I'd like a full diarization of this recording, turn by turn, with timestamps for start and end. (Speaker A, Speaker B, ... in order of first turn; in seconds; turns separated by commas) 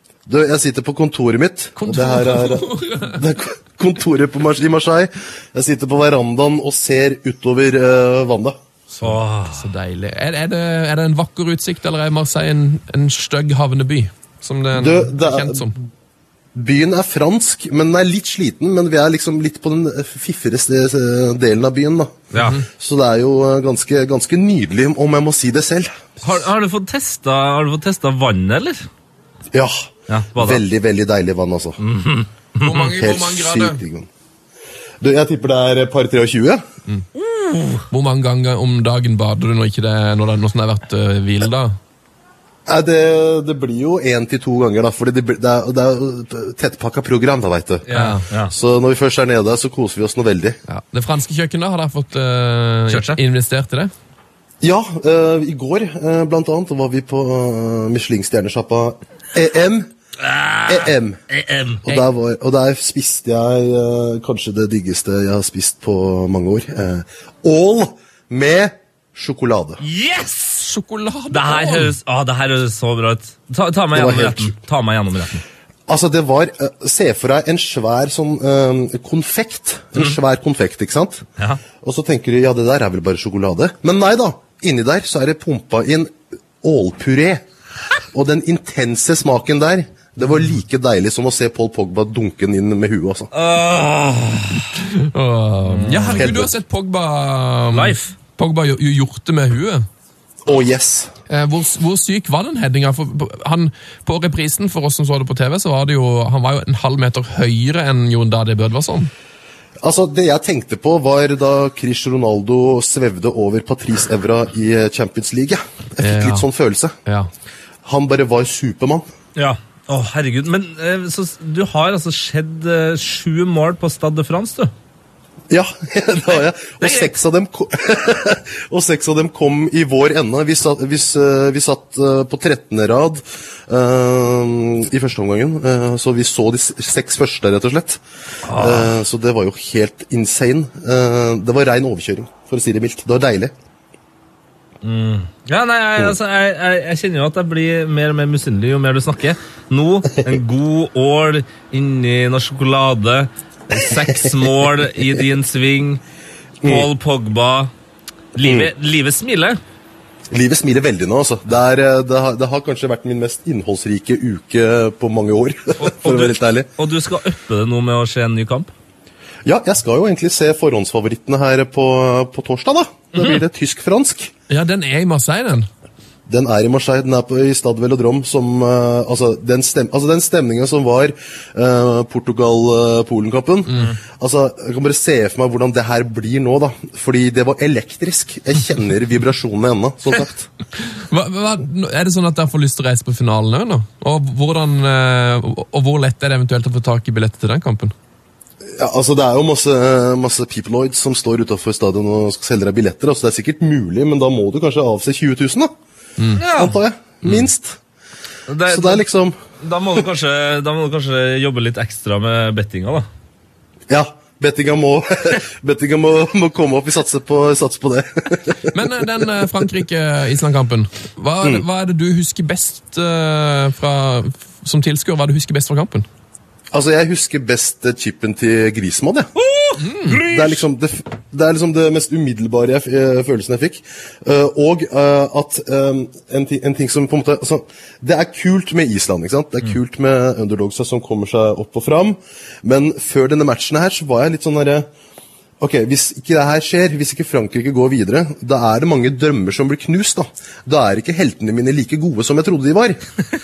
Speaker A: 0.3-8.6, Speaker B: 1.8-3.2, Speaker B: 8.9-15.7, Speaker C: 9.0-9.7, Speaker A: 14.8-15.7, Speaker A: 16.6-26.2, Speaker B: 22.4-22.7, Speaker C: 26.2-28.9, Speaker A: 29.5-31.8, Speaker C: 30.1-30.6, Speaker C: 31.8-32.9, Speaker B: 32.6-33.8, Speaker A: 32.7-34.1, Speaker A: 35.0-36.6, Speaker C: 37.1-37.9, Speaker B: 37.9-41.8, Speaker A: 42.7-47.9, Speaker C: 47.9-48.5, Speaker B: 47.9-48.2, Speaker A: 48.5-50.6, Speaker B: 50.7-53.9, Speaker C: 52.9-53.2, Speaker A: 54.6-59.9, Speaker C: 60.2-61.8, Speaker A: 60.7-61.2, Speaker A: 61.8-69.8, Speaker C: 69.8-70.7, Speaker B: 70.6-71.9, Speaker C: 71.3-75.5, Speaker A: 73.9-74.6, Speaker A: 75.9-81.2, Speaker A: 81.8-87.4, Speaker A: 88.1-93.3, Speaker C: 93.3-94.7, Speaker B: 94.9-99.9, Speaker C: 95.7-96.3, Speaker A: 96.2-96.5, Speaker C: 97.7-98.2, Speaker A: 100.4-101.1, Speaker B: 101.3-109.1, Speaker A: 109.8-117.0, Speaker B: 116.0-116.5, Speaker A: 117.8-119.1, Speaker C: 119.4-124.7, Speaker A: 125.5-143.5, Speaker C: 126.8-127.1, Speaker C: 138.4-138.9, Speaker C: 144.8-156.0, Speaker A: 156.6-156.9, Speaker C: 156.6-157.7, Speaker C: 158.3-159.6, Speaker A: 158.4-158.7, Speaker A: 160.3-166.7, Speaker C: 165.8-168.7, Speaker A: 169.5-174.3, Speaker B: 174.5-175.7, Speaker A: 176.3-190.5, Speaker B: 190.9-197.9, Speaker A: 198.7-205.7, Speaker B: 206.2-206.4, Speaker C: 206.4-206.8, Speaker A: 206.5-207.8, Speaker C: 208.5-209.1, Speaker A: 208.7-209.4, Speaker C: 209.6-213.1, Speaker A: 213.9-219.3, Speaker B: 218.7-226.1, Speaker A: 226.7-229.3, Speaker C: 229.4-230.6, Speaker B: 229.8-230.2, Speaker A: 230.3-244.9, Speaker A: 245.6-253.0